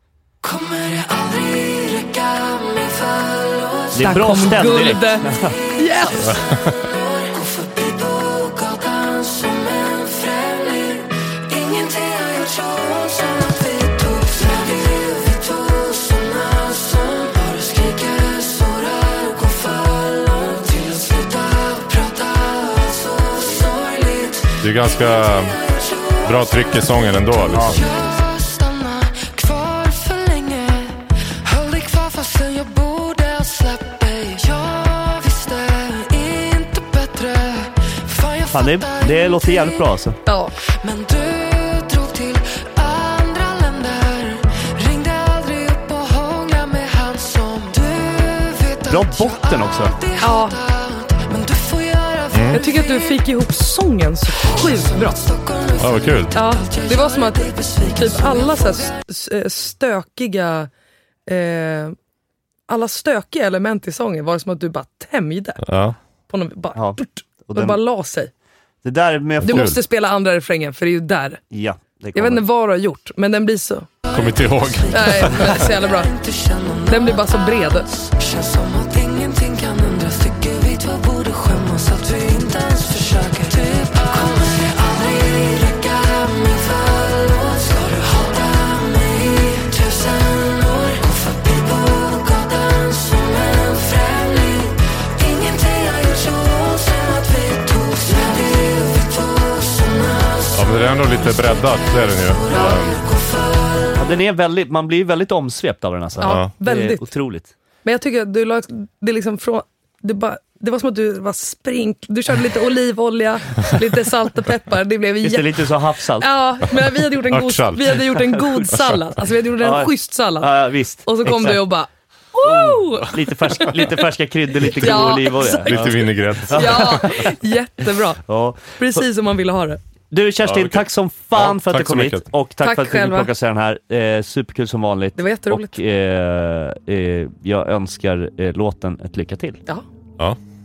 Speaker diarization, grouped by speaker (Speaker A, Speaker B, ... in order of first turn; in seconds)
Speaker A: 0.4-4.3, 6.0-26.9, 27.5-39.9, 40.6-53.1, 54.5-58.9, 74.1-77.3, 77.9-101.4, 102.3-104.0
Speaker B: 3.9-5.6, 27.5-27.9, 38.5-40.2, 48.9-49.9, 66.7-67.8, 68.8-69.8, 71.5-72.4, 104.0-107.5, 115.2-116.3, 119.6-121.6, 122.3-127.4, 128.0-129.0, 130.1-139.6
Speaker C: 4.0-6.4, 40.2-40.5, 50.2-50.6, 52.5-55.2, 56.3-60.7, 61.3-62.0, 62.7-65.6, 66.3-68.3, 69.4-71.4, 72.1-73.9, 74.9-76.1, 76.9-77.9, 106.2-107.1, 107.8-120.5, 121.0-123.7, 124.6-128.2, 128.8-129.8, 132.6-133.3, 135.2-135.8
Speaker D: 6.2-6.7, 24.6-25.6, 26.2-27.9, 52.3-52.6, 55.8-56.4, 65.6-66.0, 69.4-69.8, 74.1-75.6, 100.5-103.0, 106.2-106.5, 117.3-118.2, 118.7-119.0, 125.0-127.1, 130.4-132.3